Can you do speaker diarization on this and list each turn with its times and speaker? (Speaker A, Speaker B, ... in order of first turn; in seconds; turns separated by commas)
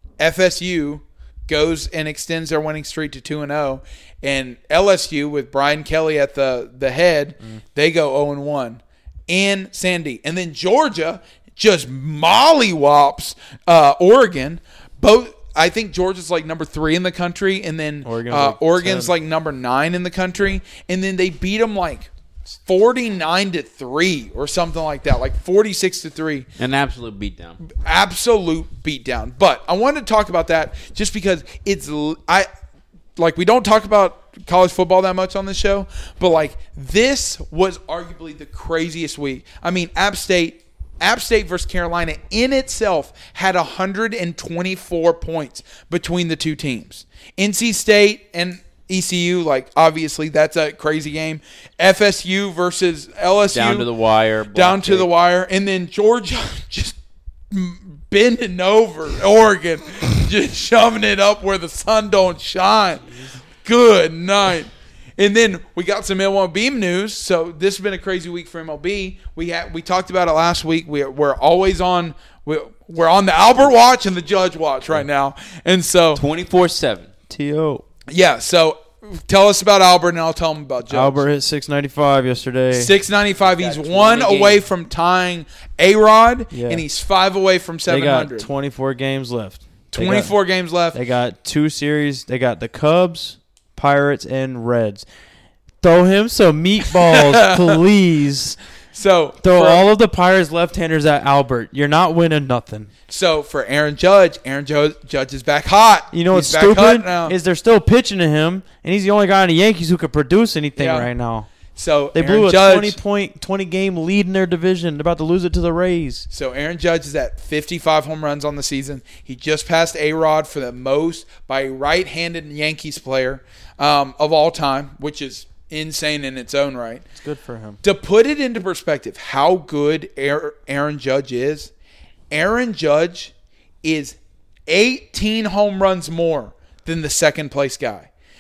Speaker A: 0.2-26.5, Speaker B: 18.0-19.1, Speaker C: 26.6-27.6, Speaker A: 27.7-32.5, Speaker A: 33.2-53.9, Speaker C: 53.5-55.1, Speaker A: 54.5-57.0, Speaker A: 57.5-63.1, Speaker A: 63.6-76.2, Speaker C: 76.2-77.1, Speaker B: 77.3-77.8, Speaker A: 78.1-81.2, Speaker B: 80.9-82.9, Speaker A: 82.7-88.5, Speaker C: 83.5-84.6, Speaker B: 86.5-86.8, Speaker B: 87.9-90.4, Speaker A: 89.9-91.0, Speaker B: 90.9-95.0, Speaker B: 95.8-98.6, Speaker A: 97.0-97.8, Speaker A: 98.9-99.9, Speaker B: 99.4-102.9, Speaker A: 103.1-107.4, Speaker B: 106.1-111.5, Speaker A: 110.8-111.1, Speaker A: 111.8-113.0, Speaker B: 112.1-116.3, Speaker A: 116.3-127.0, Speaker B: 127.2-127.8, Speaker A: 127.8-131.7, Speaker A: 132.3-138.1